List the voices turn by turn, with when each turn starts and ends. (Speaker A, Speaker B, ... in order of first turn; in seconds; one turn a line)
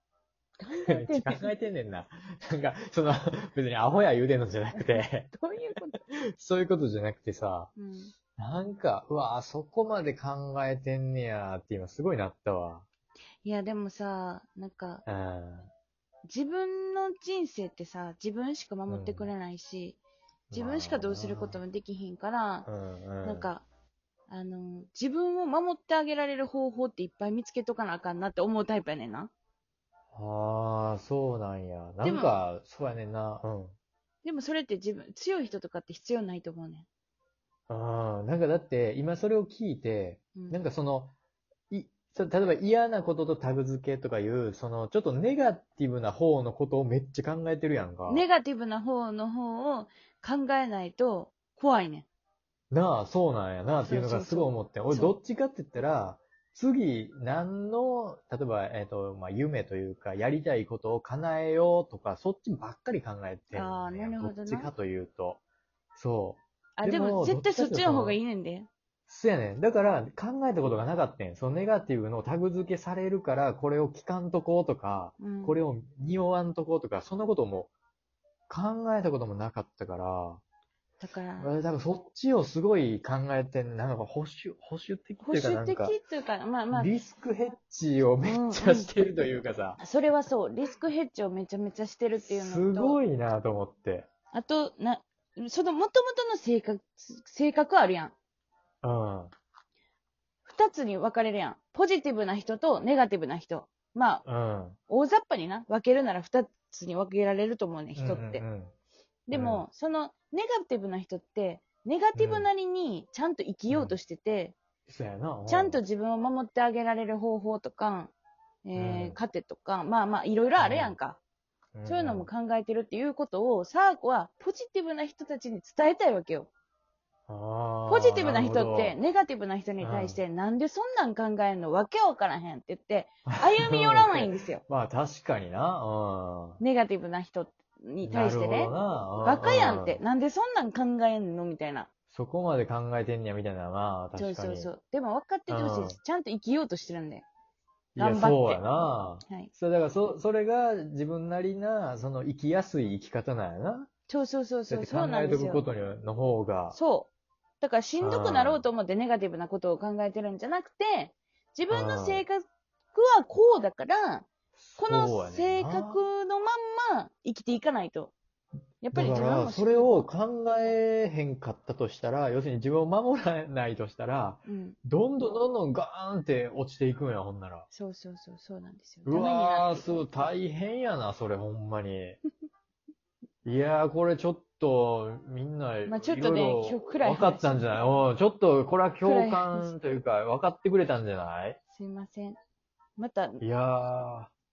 Speaker A: 0.6-1.5
Speaker B: 0.7-5.4
Speaker A: 4.7-6.0
Speaker B: 6.1-7.7
Speaker A: 7.8-8.1
Speaker B: 8.4-12.9
Speaker A: 13.4-15.0
Speaker B: 15.1-15.7
Speaker A: 16.3-20.0
Speaker B: 18.9-19.3
Speaker B: 20.5-21.6
Speaker A: 20.5-22.7
Speaker B: 22.7-23.5
Speaker A: 23.2-23.6
Speaker A: 24.3-29.3
Speaker B: 30.1-33.8
Speaker A: 32.0-32.4
Speaker A: 34.2-36.9
Speaker B: 37.7-41.1
Speaker A: 40.4-40.6
Speaker B: 41.7-48.3
Speaker A: 48.1-52.1
Speaker B: 52.7-65.4
Speaker A: 53.8-55.1
Speaker A: 63.5-64.7
Speaker B: 66.0-68.2
Speaker A: 66.8-68.7
Speaker B: 69.1-77.7
Speaker A: 75.2-75.6
Speaker B: 78.5-80.4
Speaker A: 81.0-81.5
Speaker B: 81.4-86.0
Speaker A: 85.2-86.9
Speaker B: 86.7-89.8
Speaker A: 88.2-88.9
Speaker A: 89.8-93.0
Speaker B: 92.2-94.1
Speaker A: 94.3-98.1
Speaker B: 98.8-99.3
Speaker A: 100.5-104.2
Speaker B: 104.2-104.8
Speaker A: 104.9-108.4
Speaker B: 108.0-108.7
Speaker A: 109.3-114.6
Speaker B: 109.3-109.7
Speaker B: 112.2-112.5
Speaker B: 113.7-114.0
Speaker B: 114.9-115.8
Speaker A: 115.5-118.1
Speaker A: 118.7-121.2
Speaker B: 118.8-119.2
Speaker B: 120.6-121.0
Speaker B: 121.8-122.3
Speaker A: 121.9-126.5
Speaker B: 127.3-129.0
Speaker A: 127.9-134.6
Speaker B: 129.8-130.2
Speaker B: 133.3-136.6
Speaker A: 136.6-141.9
Speaker B: 138.0-140.0
Speaker B: 142.1-144.7
Speaker A: 144.2-147.3
Speaker B: 145.5-146.0
Speaker B: 148.0-153.9
Speaker A: 148.0-149.5
Speaker A: 154.1-155.6
Speaker B: 154.7-156.8
Speaker A: 156.7-164.3
Speaker B: 158.0-158.6
Speaker B: 161.7-162.2
Speaker B: 164.6-166.0
Speaker A: 164.8-168.1
Speaker A: 168.8-169.9
Speaker B: 168.9-177.7
Speaker A: 174.5-174.8
Speaker A: 177.7-180.1
Speaker B: 179.1-182.2
Speaker B: 183.4-191.6
Speaker A: 185.9-187.8
Speaker A: 189.0-189.7
Speaker A: 191.7-192.4
Speaker A: 193.0-193.4
Speaker B: 193.4-194.3